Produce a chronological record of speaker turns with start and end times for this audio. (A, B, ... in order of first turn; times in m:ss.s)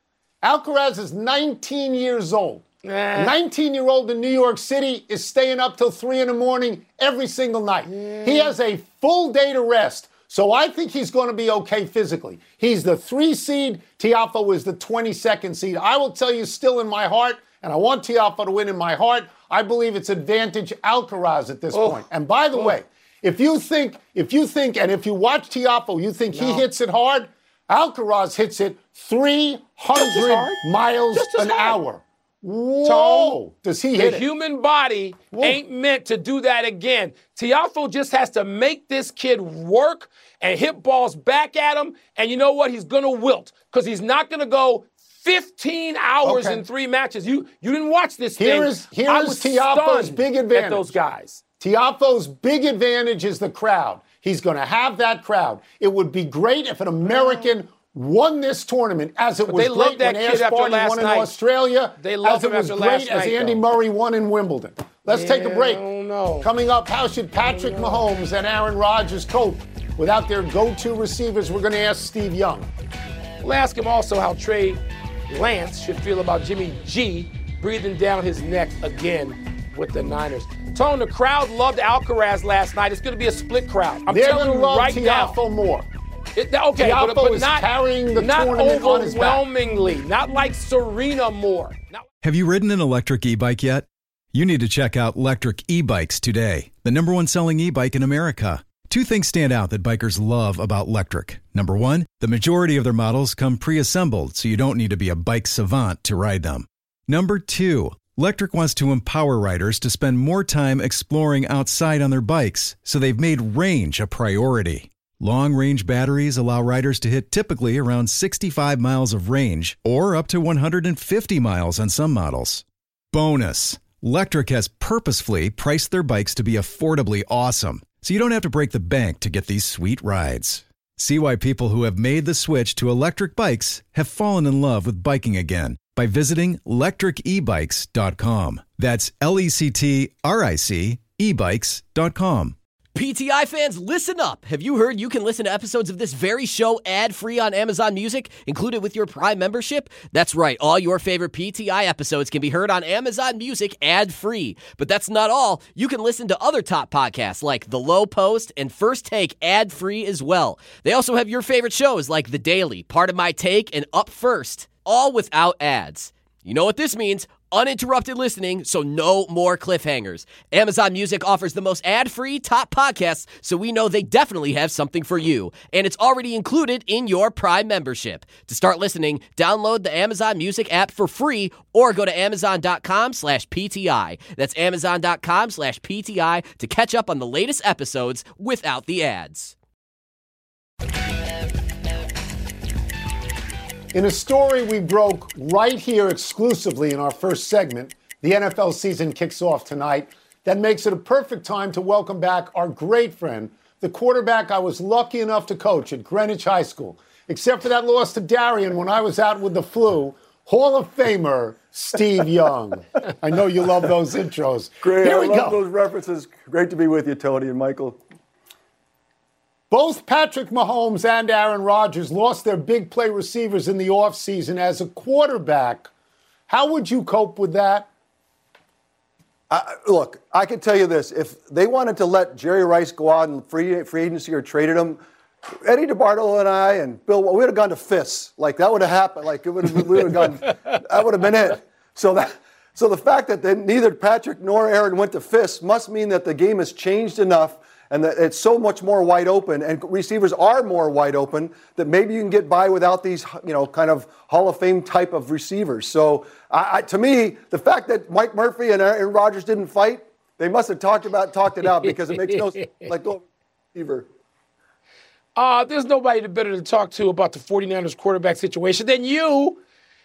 0:00.4-0:34.2 A
0:02.8-0:03.3 B
0:07.9-0:08.5 B
0:21.7-0:22.0 B
0:26.3-0:26.6 B
0:29.9-0:30.6 B
0:31.1-0:31.8 B
0:32.8-0:33.4 B
0:34.0-0:51.4 B
0:35.3-0:35.6 A
0:46.2-0:46.6 A
0:48.4-0:50.9 A
0:51.6-1:05.8 A
0:57.0-0:57.4 B
0:59.5-1:01.4 B
1:02.0-1:03.6 B
1:05.1-1:06.5 B
1:06.4-1:12.7 A
1:07.4-1:08.0 B
1:13.4-1:25.4 B
1:24.1-1:25.9 A
1:26.4-1:32.0 B
1:26.8-1:29.4 A
1:32.2-2:22.5 C
2:22.9-3:09.5 D
3:13.9-3:35.6 A
3:34.8-3:38.0 E
3:39.7-3:45.9 A
3:46.5-3:47.9 A
3:49.5-4:24.1 E
4:25.4-4:29.6 B